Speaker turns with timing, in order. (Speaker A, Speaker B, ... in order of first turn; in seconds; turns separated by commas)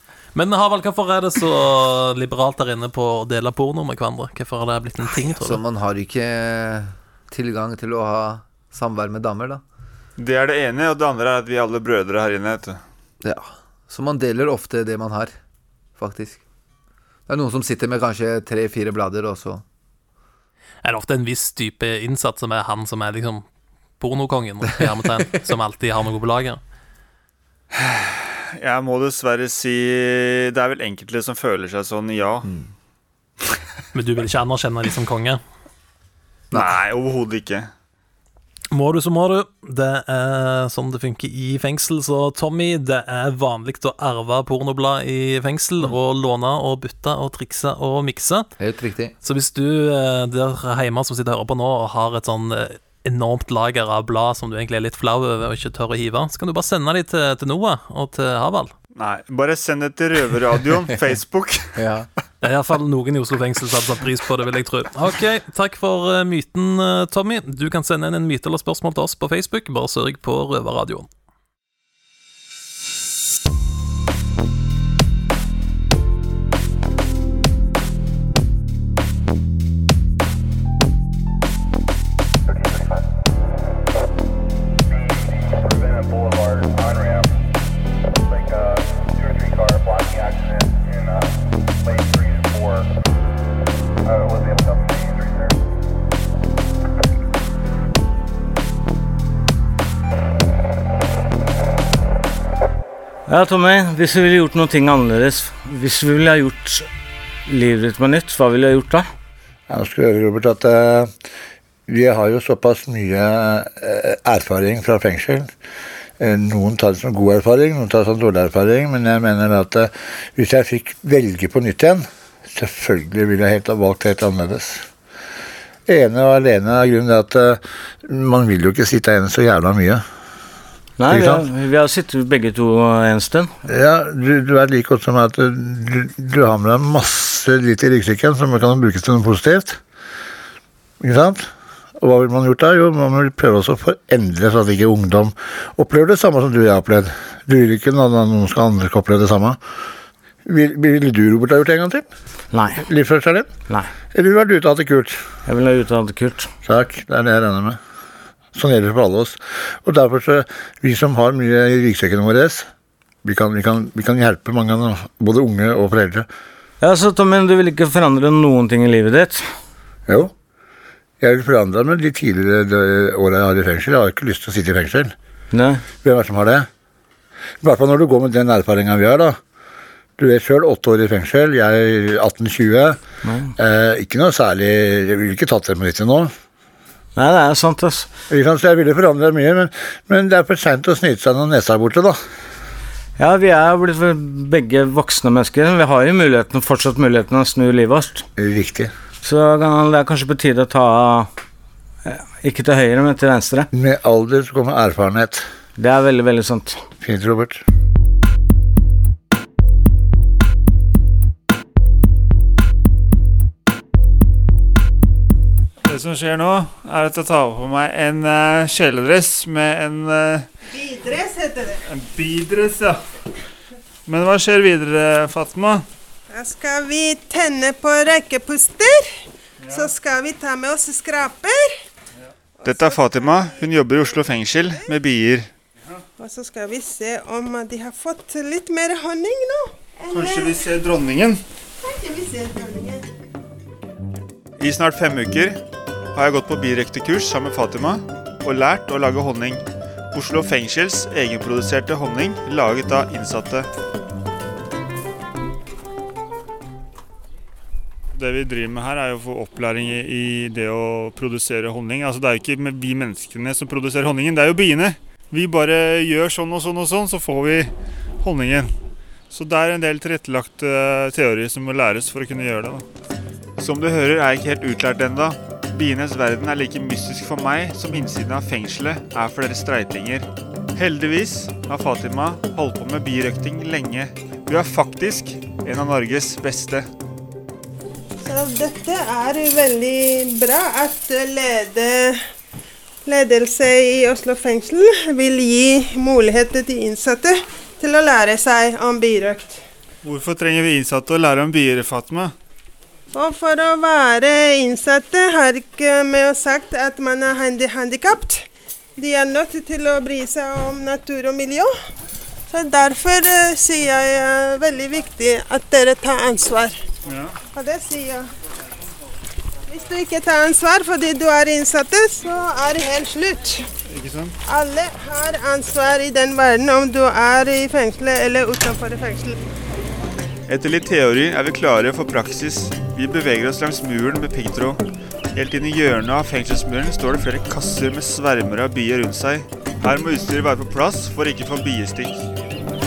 Speaker A: 0.3-5.6, Speaker B: 5.1-9.6, Speaker C: 10.2-12.8, Speaker B: 13.2-15.3, Speaker B: 16.0-16.4, Speaker B: 17.3-19.6, Speaker A: 20.8-23.4, Speaker A: 24.0-26.6, Speaker C: 27.7-32.5, Speaker A: 33.9-35.4, Speaker C: 36.5-37.7, Speaker A: 38.7-48.5, Speaker B: 48.6-49.1, Speaker A: 49.2-58.7, Speaker C: 59.0-61.7, Speaker B: 61.8-62.1, Speaker A: 62.4-71.1, Speaker D: 82.5-83.0, Speaker D: 84.9-87.4, Speaker D: 88.2-92.9, Speaker D: 94.0-95.6, Speaker E: 103.3-106.9, Speaker E: 107.5-109.1, Speaker F: 109.7-111.1, Speaker F: 111.9-115.5, Speaker F: 116.2-124.8, Speaker F: 125.9-130.0, Speaker E: 131.0-133.5, Speaker F: 131.1-131.5, Speaker F: 133.7-139.8, Speaker F: 141.0-141.5, Speaker F: 142.0-149.6, Speaker F: 150.5-152.1, Speaker E: 152.5-152.8, Speaker F: 152.8-153.5, Speaker F: 154.1-155.2, Speaker E: 155.5-156.5, Speaker F: 156.7-157.8, Speaker F: 158.6-162.7, Speaker F: 163.2-166.3, Speaker E: 166.8-169.5, Speaker F: 171.2-175.1, Speaker E: 175.5-175.8, Speaker F: 176.0-176.7, Speaker F: 177.6-179.4, Speaker F: 180.2-183.0, Speaker E: 183.2-183.5, Speaker F: 183.6-186.3, Speaker E: 187.2-188.1, Speaker F: 188.3-192.2, Speaker E: 193.2-198.3, Speaker F: 198.4-198.9, Speaker E: 199.2-201.3, Speaker E: 202.1-203.7, Speaker F: 203.7-205.5, Speaker E: 205.8-206.8, Speaker F: 207.0-207.6, Speaker C: 215.8-220.5, Speaker G: 220.7-221.8, Speaker C: 221.9-223.0, Speaker C: 224.1-225.9, Speaker G: 226.3-231.7, Speaker C: 229.6-229.9, Speaker G: 232.6-234.9, Speaker C: 232.6-235.5, Speaker G: 236.2-240.7, Speaker C: 240.1-241.4, Speaker G: 241.8-243.0, Speaker C: 244.6-245.6, Speaker C: 246.1-249.6, Speaker C: 250.1-253.7, Speaker C: 258.1-268.7, Speaker C: 269.3-272.9, Speaker C: 273.6-286.9, Speaker G: 288.2-292.2, Speaker G: 293.1-299.6, Speaker C: 300.0-302.3, Speaker G: 303.1-311.7, Speaker G: 312.5-316.8, Speaker C: 317.1-317.4, Speaker G: 317.5-318.3, Speaker G: 319.7-323.7, Speaker C: 323.9-324.4, Speaker G: 324.5-329.4, Speaker C: 330.5-334.8, Speaker C: 335.4-342.2